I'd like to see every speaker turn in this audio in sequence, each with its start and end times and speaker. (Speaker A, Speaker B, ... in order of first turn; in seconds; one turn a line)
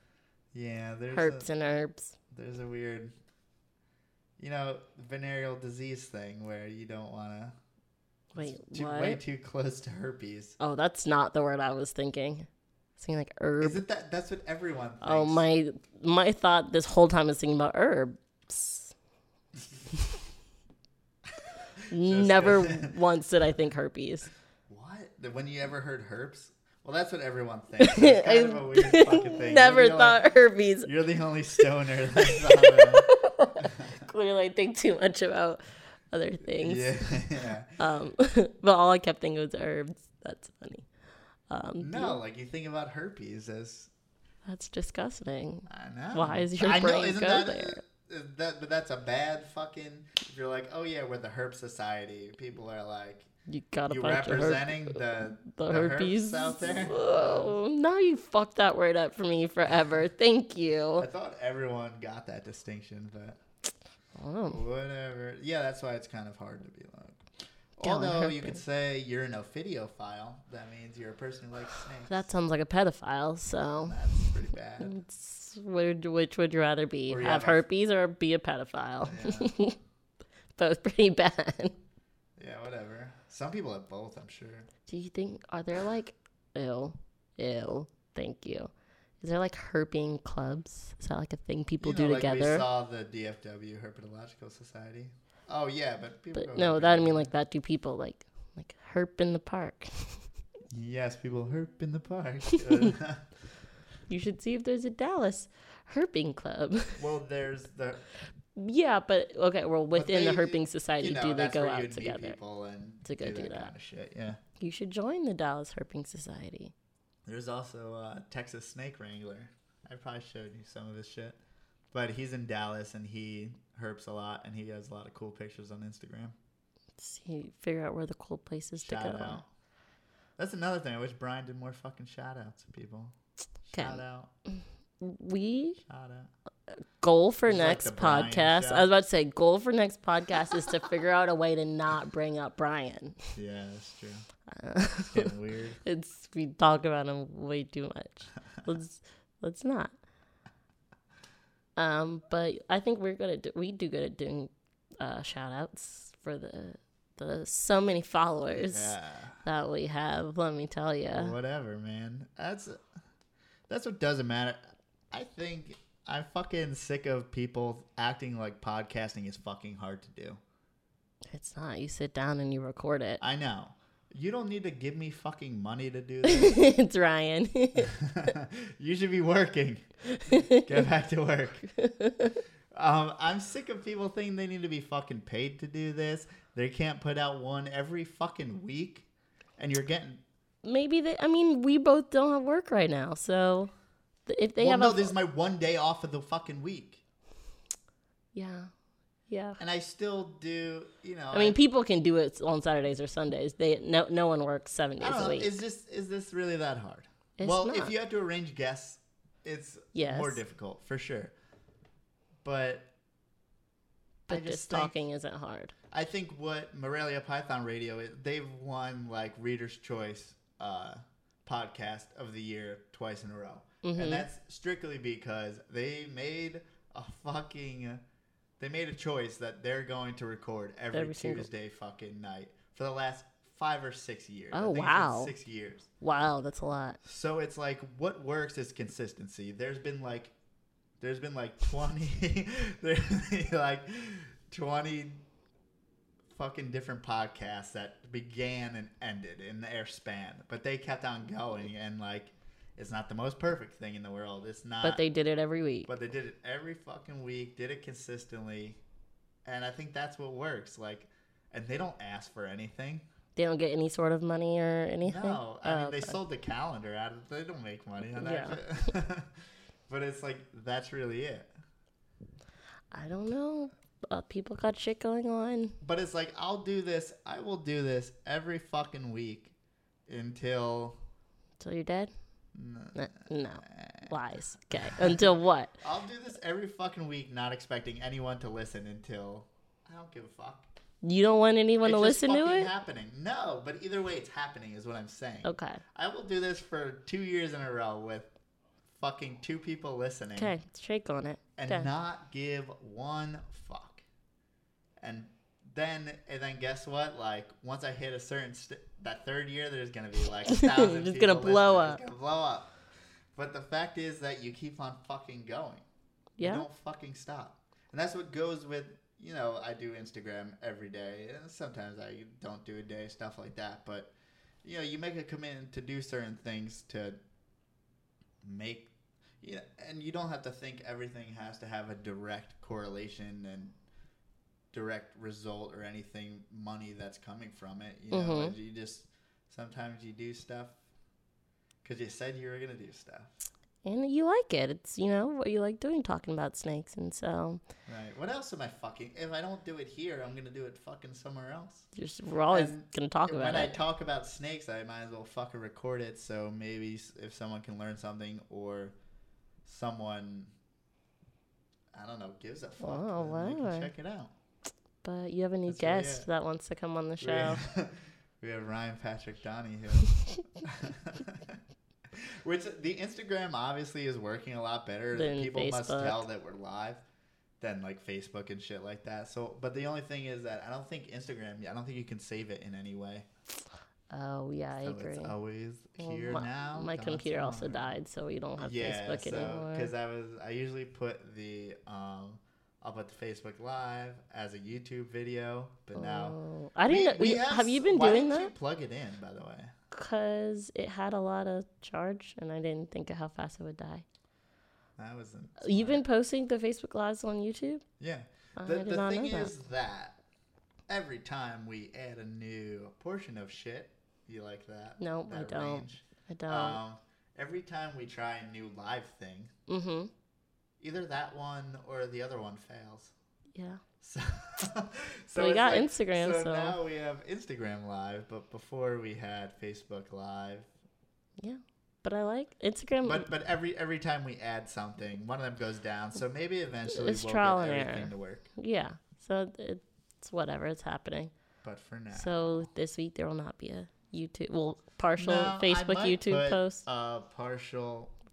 Speaker A: 0.5-1.5
Speaker B: 1.1-2.1
Speaker A: 2.3-3.1
Speaker A: 4.4-7.5
Speaker B: 8.3-9.2
Speaker A: 8.3-10.6
Speaker B: 10.6-13.8
Speaker A: 13.6-15.4
Speaker B: 15.0-18.9
Speaker A: 21.4-22.9
Speaker B: 21.9-24.3
Speaker A: 24.7-30.2
Speaker B: 27.8-30.9
Speaker A: 30.8-33.1
Speaker B: 32.2-40.9
Speaker A: 33.6-34.0
Speaker A: 36.6-37.8
Speaker B: 41.5-42.2
Speaker A: 41.8-43.9
Speaker B: 44.4-47.8
Speaker A: 45.7-53.3
Speaker B: 53.5-61.1
Speaker A: 53.9-57.5
Speaker A: 61.0-63.4
Speaker B: 64.1-64.6
Speaker A: 64.5-72.3
Speaker B: 67.8-68.6
Speaker B: 72.1-79.8
Speaker A: 73.8-75.0
Speaker A: 77.1-77.6
Speaker A: 79.0-79.5
Speaker B: 80.5-81.8
Speaker A: 82.4-84.7
Speaker B: 84.9-92.6
Speaker A: 91.8-97.3
Speaker B: 96.3-100.3
Speaker A: 100.7-103.3
Speaker B: 104.1-107.0
Speaker A: 107.0-108.1
Speaker B: 108.5-112.4
Speaker A: 109.9-114.4
Speaker B: 113.0-113.7
Speaker B: 114.6-116.7
Speaker A: 117.3-121.4
Speaker A: 121.9-126.3
Speaker B: 127.0-129.4
Speaker A: 128.8-129.5
Speaker A: 130.4-134.3
Speaker B: 133.7-135.8
Speaker A: 135.8-136.3
Speaker B: 136.7-143.3
Speaker A: 137.4-138.9
Speaker A: 143.3-144.2
Speaker B: 144.5-145.3
Speaker A: 145.1-145.8
Speaker B: 145.8-149.9
Speaker B: 151.8-161.3
Speaker A: 158.5-159.4
Speaker A: 161.1-162.8
Speaker A: 163.7-164.6
Speaker A: 165.1-170.4
Speaker B: 171.3-173.2
Speaker A: 173.2-176.6
Speaker B: 176.2-177.9
Speaker A: 177.8-181.7
Speaker B: 180.1-180.8
Speaker B: 181.7-182.4
Speaker A: 182.7-189.1
Speaker A: 189.6-190.2
Speaker B: 190.6-193.7
Speaker B: 194.2-195.1
Speaker A: 194.6-197.0
Speaker B: 198.3-198.7
Speaker B: 199.3-199.6
Speaker A: 199.6-201.6
Speaker B: 201.3-205.5
Speaker A: 205.0-211.3
Speaker B: 207.4-207.9
Speaker B: 209.9-210.4
Speaker A: 212.4-212.9
Speaker B: 214.3-215.7
Speaker A: 214.3-215.0
Speaker A: 215.9-228.0
Speaker B: 223.8-224.2
Speaker A: 228.6-235.9
Speaker B: 230.9-231.5
Speaker B: 234.5-235.3
Speaker B: 236.0-237.0
Speaker A: 237.0-240.3
Speaker A: 241.0-245.2
Speaker A: 246.3-255.0
Speaker B: 254.8-255.9
Speaker A: 255.8-258.8
Speaker A: 259.4-263.0
Speaker B: 263.4-266.2
Speaker A: 265.0-271.5
Speaker B: 268.1-268.6
Speaker B: 272.9-275.8
Speaker A: 275.8-279.5
Speaker A: 280.1-281.0
Speaker B: 281.6-282.1
Speaker A: 282.5-290.7
Speaker B: 282.9-285.8
Speaker B: 291.0-292.7
Speaker A: 291.8-298.3
Speaker B: 295.4-295.8
Speaker A: 298.9-300.5
Speaker B: 300.4-301.9
Speaker A: 301.6-304.0
Speaker A: 305.0-312.8
Speaker B: 310.5-312.0
Speaker A: 313.3-315.9
Speaker B: 316.4-316.6
Speaker A: 316.4-324.1
Speaker A: 324.6-327.2
Speaker A: 328.4-333.7
Speaker A: 334.7-340.8
Speaker B: 338.1-338.5
Speaker A: 341.8-343.3
Speaker B: 343.8-347.6
Speaker A: 347.9-351.9
Speaker B: 351.9-353.8
Speaker A: 352.5-358.9
Speaker A: 359.6-360.5
Speaker A: 361.9-364.3
Speaker B: 362.8-363.9
Speaker B: 365.0-367.6
Speaker A: 365.7-366.3
Speaker A: 367.2-371.6
Speaker A: 372.1-377.0
Speaker B: 375.1-376.2
Speaker A: 377.6-383.3
Speaker B: 384.1-385.3
Speaker A: 384.8-387.9
Speaker B: 386.0-389.9
Speaker A: 388.6-396.4
Speaker B: 395.9-398.5
Speaker A: 396.9-399.7
Speaker B: 399.9-404.0
Speaker A: 405.0-406.0
Speaker B: 405.6-407.8
Speaker A: 408.0-410.2
Speaker B: 408.6-409.5
Speaker A: 410.9-419.5
Speaker B: 415.0-416.8
Speaker B: 419.7-420.1
Speaker A: 420.8-423.1
Speaker B: 423.5-423.8
Speaker A: 424.0-430.7
Speaker B: 425.3-426.8
Speaker B: 431.4-433.3
Speaker A: 433.0-438.4
Speaker B: 436.9-441.3
Speaker A: 441.6-442.7
Speaker B: 442.1-446.9
Speaker A: 445.2-448.1